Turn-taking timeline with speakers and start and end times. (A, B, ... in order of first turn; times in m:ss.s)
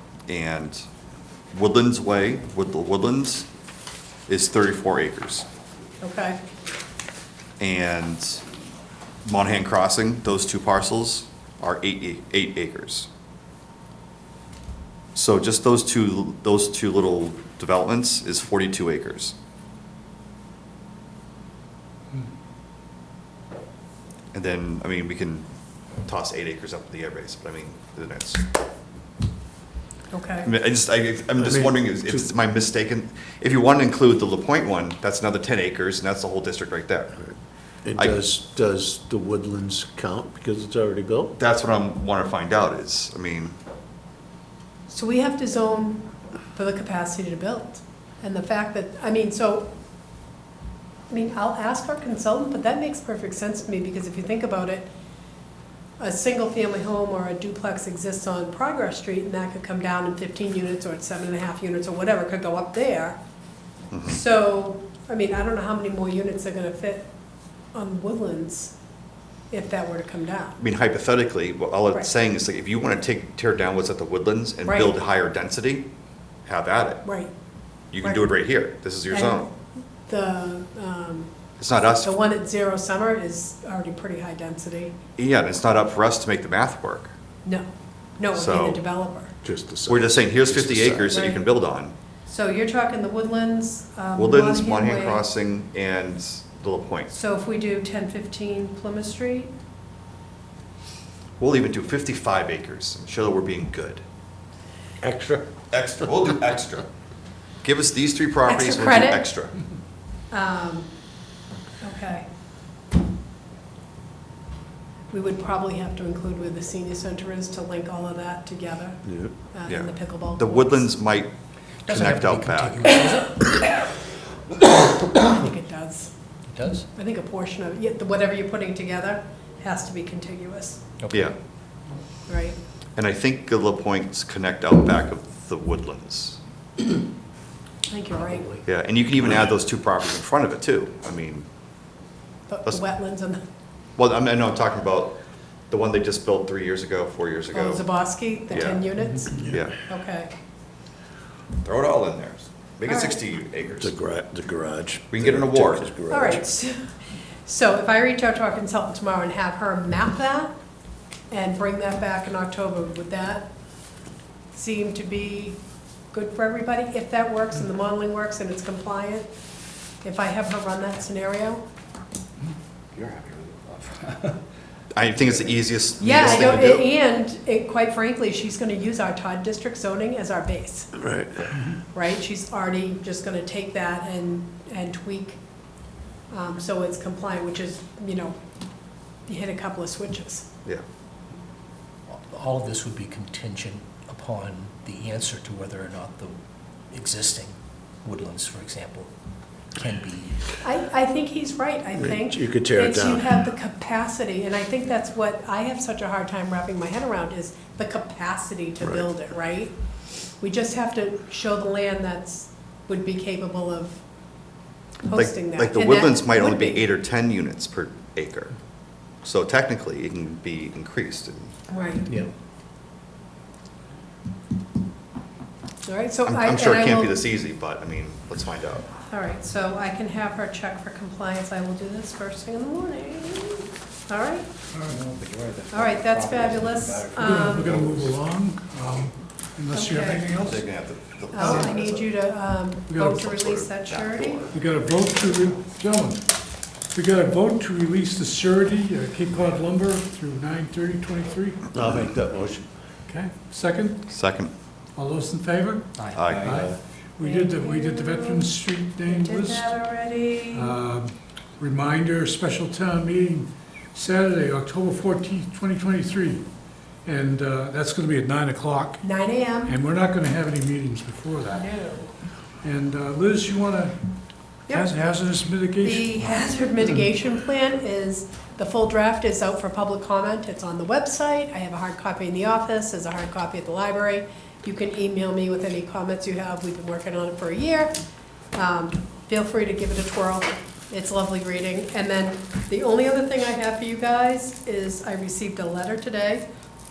0:00.3-0:00.8 A
0:01.5-0:03.5 A
0:04.3-0:05.4 A
0:06.0-0:06.4 B
0:07.6-0:08.4 A
0:09.2-0:13.1 A
0:15.2-0:19.4 A
0:24.3-0:25.5 A
0:26.0-0:28.4 A
0:30.1-0:30.5 B
0:30.4-0:37.2 A
0:31.4-0:32.3 C
0:37.8-0:41.3 C
0:38.0-0:38.2 A
0:41.4-0:43.6 A
0:44.9-0:49.7 B
0:51.1-0:54.9 B
0:56.0-1:03.2 B
1:03.9-1:04.2 A
1:04.0-1:07.1 B
1:07.7-1:08.8 B
1:09.5-1:10.6 B
1:10.6-1:15.9 A
1:14.7-1:15.0 B
1:16.5-1:17.0 A
1:17.0-1:17.3 B
1:17.9-1:19.5 A
1:18.0-1:18.3 B
1:19.1-1:19.6 B
1:20.1-1:21.3 B
1:21.6-1:22.1 A
1:22.0-1:25.0 B
1:25.2-1:27.1 A
1:28.2-1:29.3 B
1:28.3-1:28.8 A
1:29.4-1:31.1 C
1:29.9-1:31.9 A
1:31.1-1:31.4 B
1:32.3-1:35.2 B
1:34.2-1:37.1 A
1:37.1-1:39.5 B
1:41.4-1:44.0 A
1:45.0-1:45.5 C
1:45.7-1:46.9 A
1:47.6-1:49.5 A
1:48.5-1:49.3 B
1:50.3-1:50.9 B
1:51.8-1:52.3 B
1:55.1-1:59.0 B
1:59.1-1:59.3 C
1:59.5-2:00.9 B
1:59.7-2:01.3 A
2:01.8-2:02.9 A
2:01.8-2:03.9 D
2:05.2-2:06.1 B
2:06.5-2:06.9 D
2:06.9-2:10.8 B
2:11.0-2:11.3 D
2:12.3-2:12.6 B
2:13.0-2:16.4 A
2:17.9-2:18.5 B
2:18.1-2:18.6 D
2:18.6-2:21.5 A
2:22.5-2:23.4 B
2:24.0-2:25.2 A
2:25.7-2:27.9 A
2:27.5-2:30.3 B
2:28.5-2:29.8 A
2:31.6-2:33.9 A
2:32.9-2:33.2 B
2:33.8-2:36.5 C
2:35.1-2:35.9 A
2:36.1-2:40.5 B
2:41.3-2:43.5 B
2:44.5-2:45.6 B
2:46.1-2:49.3 B
2:50.0-2:51.6 B
2:53.0-2:54.1 D
2:54.9-2:56.9 A
2:56.0-3:00.9 B
3:01.0-3:01.5 C
3:01.9-3:05.4 B
3:06.3-3:08.4 B
3:09.3-3:10.5 B
3:12.1-3:16.4 D
3:16.9-3:19.1 D
3:19.8-3:20.5 D
3:20.6-3:29.7 B
3:22.0-3:23.4 C
3:28.8-3:29.1 C
3:30.4-3:34.0 B
3:35.0-3:36.9 B
3:35.1-3:38.5 A
3:39.2-3:41.5 A
3:41.7-3:42.1 B
3:42.1-3:42.3 D
3:45.9-3:47.2 B
3:46.3-3:48.9 A
3:49.1-3:54.5 B
3:54.7-3:55.0 E
3:55.7-3:57.8 B
3:57.2-4:00.8 E
3:59.7-4:00.2 B
4:00.3-4:02.1 A
4:01.3-4:04.5 B
4:01.4-4:01.7 E
4:02.9-4:03.3 E
4:03.2-4:04.6 A
4:04.5-4:06.4 E
4:06.9-4:11.7 E
4:11.7-4:12.7 C
4:13.1-4:14.1 E
4:14.1-4:14.5 A
4:15.0-4:19.8 E
4:16.0-4:16.2 D
4:16.1-4:16.5 A
4:16.4-4:16.8 C
4:17.2-4:18.5 B
4:19.0-4:20.7 B
4:20.5-4:26.5 E
4:27.0-4:29.0 E
4:29.0-4:29.8 B
4:29.6-4:31.7 E
4:31.5-4:32.1 B
4:32.6-4:34.0 E
4:34.6-4:36.3 E
4:35.8-4:48.0 B
4:48.5-4:56.5 B